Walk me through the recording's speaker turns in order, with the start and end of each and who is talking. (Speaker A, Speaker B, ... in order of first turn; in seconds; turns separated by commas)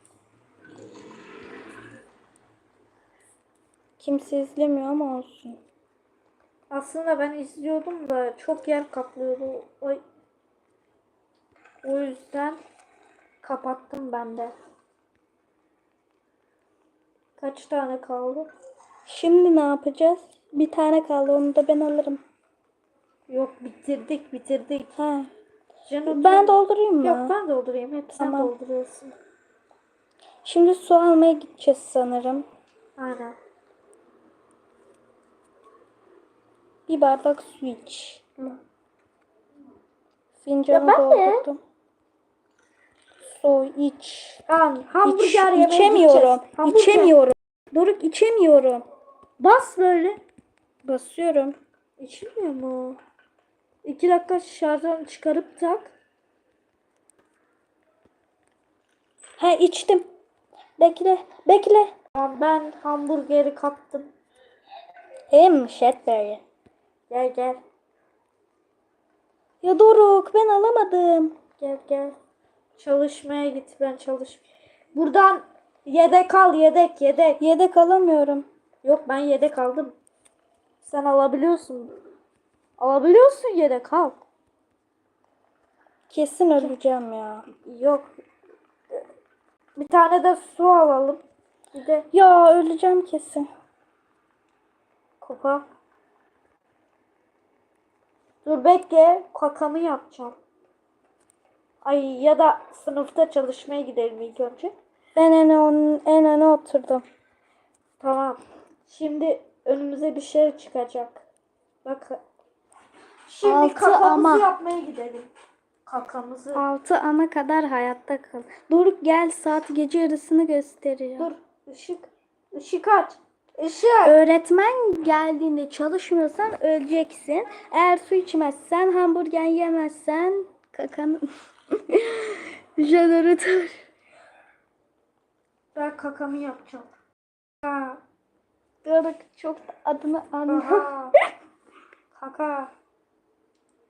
Speaker A: 4.0-5.6, Speaker B: 6.7-10.0, Speaker B: 11.8-12.6, Speaker B: 13.4-14.5, Speaker B: 17.4-18.5, Speaker A: 19.1-22.2, Speaker B: 23.3-24.9, Speaker A: 25.0-25.3, Speaker B: 25.9-29.1, Speaker A: 26.1-27.3, Speaker A: 28.1-28.5, Speaker A: 30.4-32.5, Speaker B: 33.0-33.4, Speaker A: 36.9-38.6, Speaker A: 40.4-41.6, Speaker B: 40.7-41.5, Speaker A: 43.2-44.4, Speaker B: 44.5-47.1, Speaker A: 45.0-48.8, Speaker B: 49.4-50.2, Speaker A: 50.9-51.6, Speaker B: 52.0-53.0, Speaker B: 53.8-55.9, Speaker A: 59.4-60.0, Speaker A: 60.8-61.9, Speaker B: 62.1-64.1, Speaker A: 65.3-66.4, Speaker B: 67.1-67.6, Speaker A: 69.6-71.4, Speaker B: 71.6-72.2, Speaker B: 72.8-77.4, Speaker A: 77.4-78.5, Speaker B: 78.8-80.0, Speaker B: 80.8-82.0, Speaker B: 82.8-84.2, Speaker A: 86.1-87.5, Speaker B: 87.5-88.1, Speaker B: 89.8-91.2, Speaker B: 91.7-92.1, Speaker A: 92.1-93.5, Speaker B: 95.2-95.7, Speaker B: 98.4-100.4, Speaker B: 101.8-104.7, Speaker A: 105.2-107.0, Speaker B: 108.0-111.2, Speaker B: 111.8-112.2, Speaker B: 113.3-115.3, Speaker A: 113.4-114.5, Speaker B: 115.9-116.6, Speaker A: 116.5-121.3, Speaker B: 121.2-124.2, Speaker A: 124.0-133.8, Speaker B: 135.8-136.9, Speaker B: 137.6-138.0, Speaker A: 138.8-141.2, Speaker B: 140.5-141.2, Speaker B: 142.1-142.7